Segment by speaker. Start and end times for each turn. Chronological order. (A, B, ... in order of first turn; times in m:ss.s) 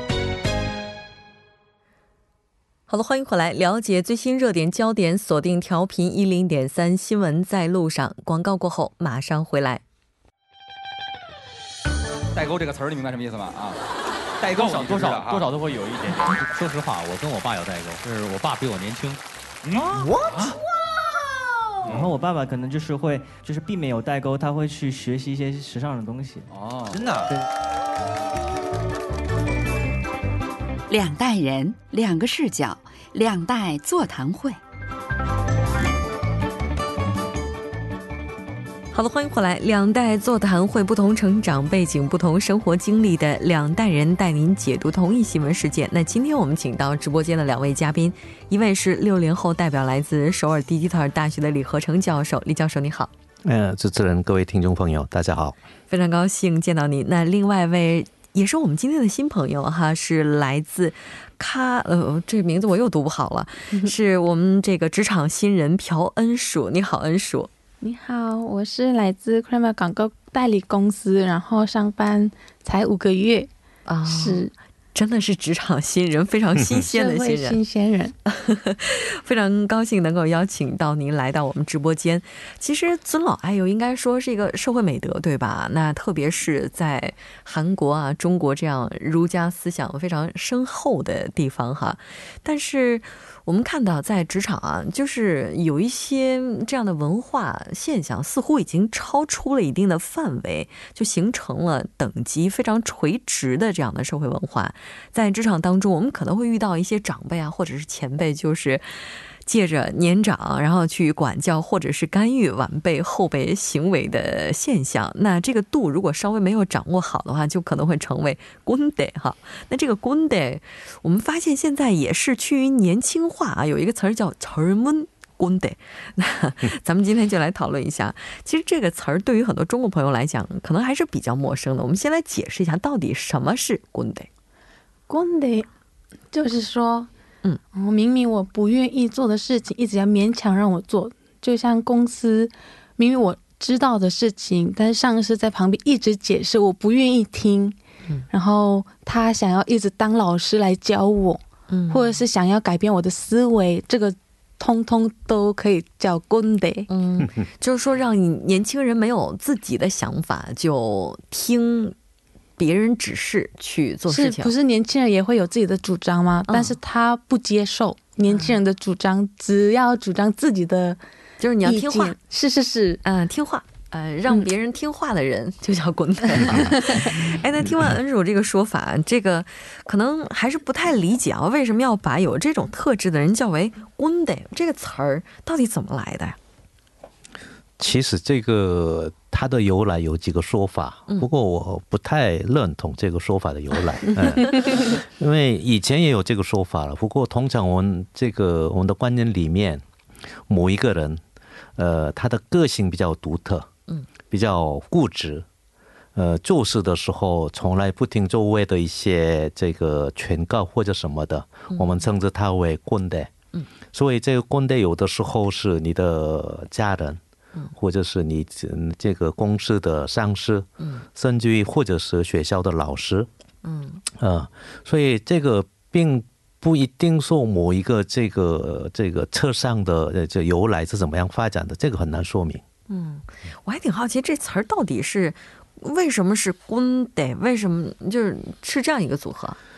0:02.9-0:09.8 A
0:12.4-0:13.8 B
0:14.4-0:16.5 B
0:14.4-0:19.2 C
0:19.7-0:20.5 B
0:19.7-0:20.5 C
0:21.9-0:26.5 D
0:26.5-0:27.2 B
0:26.8-0:27.1 C
0:30.9-0:34.6 E
0:38.9-0:53.1 A
0:53.4-0:55.6 F
0:55.9-1:07.5 A
1:07.8-1:13.5 G
1:13.9-1:17.6 A
1:14.0-1:14.5 G
1:16.8-1:18.1 G
1:18.2-1:48.8 A
1:49.4-2:14.3 A
2:15.1-2:15.7 G
2:16.3-2:17.1 G
2:17.7-2:27.8 G
2:28.3-2:36.9 G
2:31.7-2:32.2 A
2:36.9-2:42.0 A
2:42.6-2:44.5 A
2:44.1-2:51.0 G
2:46.5-2:46.8 A
2:48.3-2:48.6 A
2:51.4-2:52.1 A
2:51.6-2:53.0 G
2:53.0-3:06.4 A
2:56.4-2:57.2 G
3:07.8-3:19.8 F
3:20.5-3:21.2 F
3:21.8-3:23.7 F
3:24.3-3:25.4 F
3:26.1-3:33.3 F
3:31.7-3:32.1 A
3:33.9-3:37.2 F
3:37.7-3:43.3 F
3:40.8-3:41.0 A
3:43.6-3:44.0 A
3:44.1-3:52.6 F
3:52.9-3:59.6 A